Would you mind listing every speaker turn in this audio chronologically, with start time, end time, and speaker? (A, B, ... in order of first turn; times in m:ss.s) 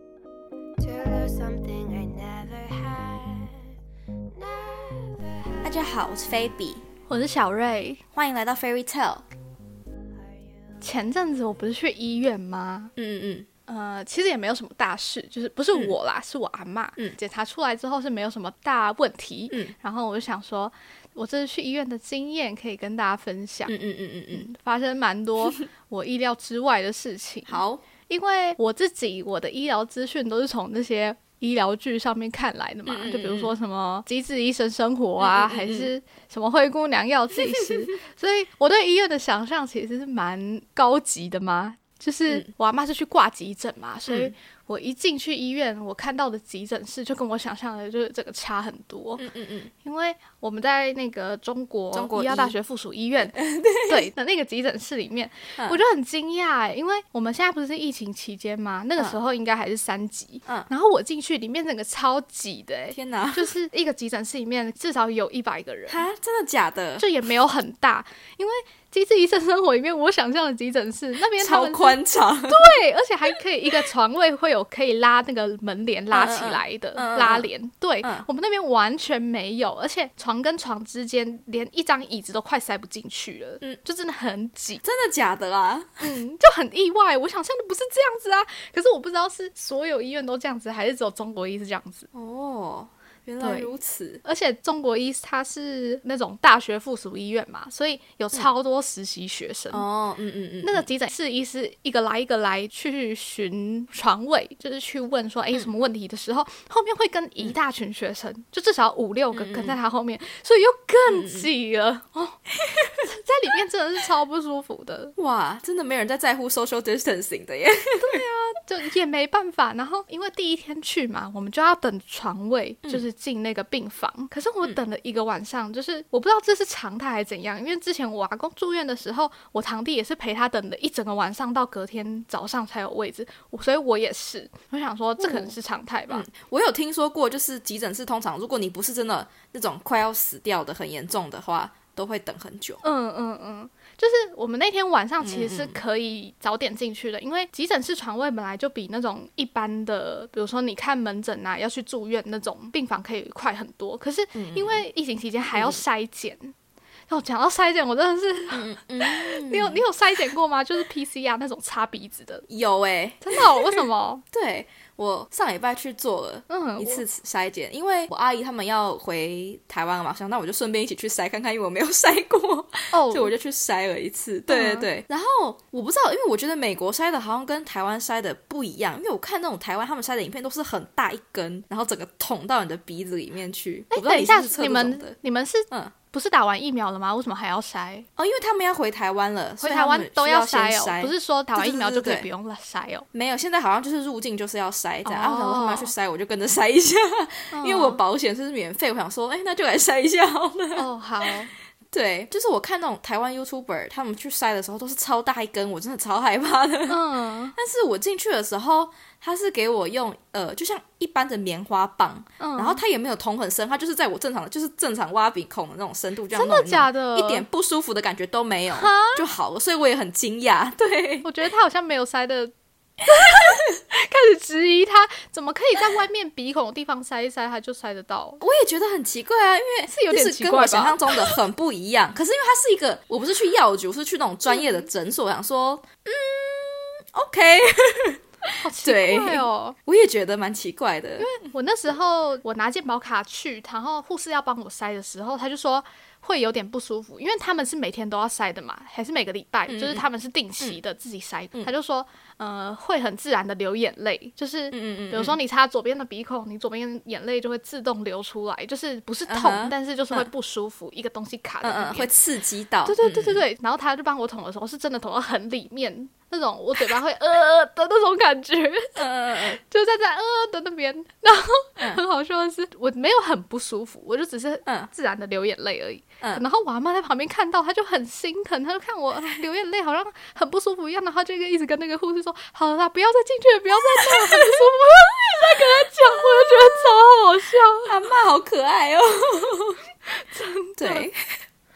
0:00.8-0:03.6 A
0:04.3-0:05.7 A
0:05.6-0:06.8 B
0:07.1-0:08.0 C
0:08.1-0:09.3 B
0:10.8-0:12.9 C
0:13.0-0:13.5 B
0:13.7-0:23.8 C
0:19.5-0:19.7 B
0:23.7-0:24.5 B
0:24.3-0:49.2 C
0:27.5-0:27.8 B
0:32.9-0:33.5 B
0:35.2-0:35.9 B
0:44.1-0:44.3 B
0:49.2-0:49.7 B
0:49.8-1:06.0 C
0:51.9-0:52.5 B
0:53.2-0:54.1 B
1:02.9-1:03.5 B
1:05.9-1:07.1 B
1:07.0-1:24.8 C
1:11.4-1:12.8 B
1:16.1-1:17.5 B
1:24.8-1:26.1 B
1:26.0-1:32.1 C
1:32.1-1:34.2 B
1:33.4-1:33.7 C
1:34.2-1:39.8 C
1:39.7-1:40.9 B
1:40.6-1:52.4 C
1:49.3-1:49.8 B
1:51.1-1:51.5 B
1:52.7-1:52.9 B
1:53.0-1:55.1 C
1:55.2-1:58.2 B
1:58.0-2:16.3 C
2:15.2-2:15.5 B
2:16.1-2:22.8 B
2:22.8-2:36.5 C
2:25.2-2:25.8 B
2:34.3-2:34.8 B
2:35.5-2:35.8 B
2:37.1-2:42.4 C
2:38.5-2:39.8 B
2:42.5-3:05.2 B
2:43.2-2:44.2 C
2:46.5-2:47.0 C
2:52.9-2:53.3 C
2:54.5-2:54.9 C
3:03.9-3:08.1 C
3:08.2-3:12.3 B
3:09.6-3:13.0 C
3:13.1-3:21.3 B
3:15.0-3:15.9 C
3:17.5-3:18.0 C
3:20.8-3:21.5 C
3:21.9-3:41.3 B
3:26.9-3:27.5 C
3:32.4-3:32.8 C
3:36.3-3:37.4 C
3:38.7-3:39.2 C
3:41.2-3:42.5 C
3:43.0-3:48.4 C
3:48.4-4:01.3 B
3:49.9-3:51.3 C
3:54.5-3:54.9 C
3:58.6-3:59.8 C
4:01.2-4:22.1 C
4:09.7-4:10.0 B
4:14.7-4:15.4 B
4:19.3-4:20.3 B
4:21.6-4:23.4 B
4:22.8-4:48.0 C
4:29.0-4:29.6 B
4:44.0-4:47.0 B
4:47.8-4:49.8 B
4:50.1-4:51.1 C
4:50.8-4:51.2 B